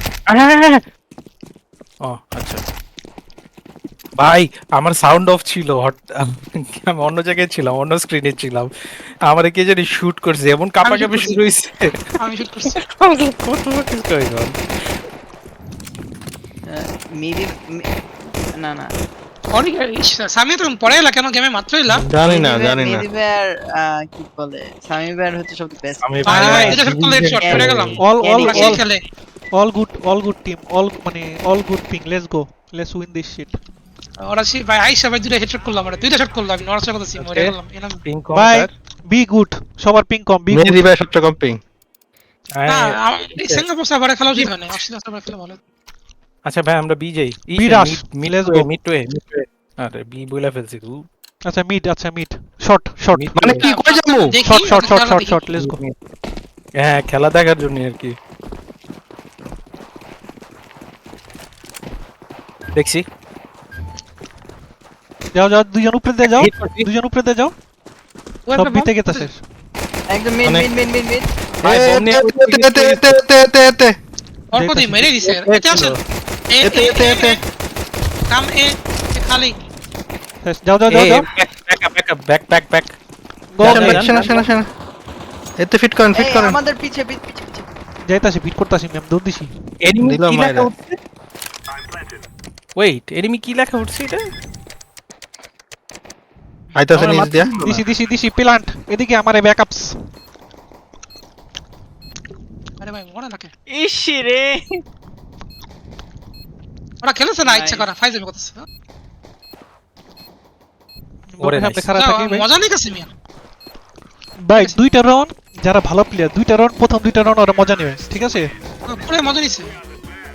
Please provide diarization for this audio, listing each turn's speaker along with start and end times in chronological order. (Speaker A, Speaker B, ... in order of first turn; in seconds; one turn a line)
Speaker A: 0.3-0.8
Speaker A: 2.0-2.6
Speaker A: 4.2-8.7
Speaker A: 9.2-14.9
Speaker B: 10.8-11.4
Speaker B: 12.2-12.8
Speaker C: 16.7-17.9
Speaker C: 18.6-18.9
Speaker B: 19.5-22.0
Speaker D: 22.0-23.0
Speaker C: 22.2-26.1
Speaker A: 26.0-28.0
Speaker B: 26.2-29.0
Speaker E: 26.2-26.8
Speaker C: 27.4-28.8
Speaker E: 28.0-28.8
Speaker E: 29.5-33.5
Speaker B: 34.2-38.0
Speaker A: 37.2-38.7
Speaker E: 38.3-40.9
Speaker D: 40.5-41.6
Speaker A: 42.5-43.6
Speaker B: 42.7-45.6
Speaker A: 46.4-51.1
Speaker E: 47.5-48.7
Speaker E: 51.5-53.3
Speaker A: 53.1-53.6
Speaker D: 53.3-54.4
Speaker B: 53.6-55.4
Speaker E: 54.4-55.8
Speaker A: 55.5-55.9
Speaker A: 56.8-58.1
Speaker A: 62.7-63.0
Speaker E: 65.3-67.5
Speaker A: 66.2-66.9
Speaker B: 68.5-69.3
Speaker E: 68.5-69.4
Speaker C: 70.1-71.3
Speaker A: 71.6-73.1
Speaker D: 71.6-74.0
Speaker B: 74.5-76.0
Speaker E: 74.5-75.2
Speaker A: 75.5-75.9
Speaker D: 75.5-75.9
Speaker B: 76.5-77.4
Speaker D: 76.6-77.4
Speaker B: 78.3-79.5
Speaker E: 80.4-81.2
Speaker A: 80.9-82.9
Speaker E: 83.5-84.1
Speaker A: 83.6-84.4
Speaker D: 83.6-84.7
Speaker D: 85.6-86.6
Speaker C: 86.2-87.7
Speaker E: 88.1-89.5
Speaker A: 89.8-91.0
Speaker D: 90.0-90.7
Speaker A: 92.8-94.3
Speaker D: 96.8-97.5
Speaker A: 97.0-97.8
Speaker E: 97.0-100.0
Speaker B: 102.8-103.5
Speaker C: 103.7-104.8
Speaker B: 107.0-108.7
Speaker C: 107.4-107.9
Speaker E: 111.3-112.5
Speaker A: 111.4-111.9
Speaker B: 111.9-113.1
Speaker E: 114.4-118.5
Speaker B: 114.5-114.8
Speaker B: 118.9-119.7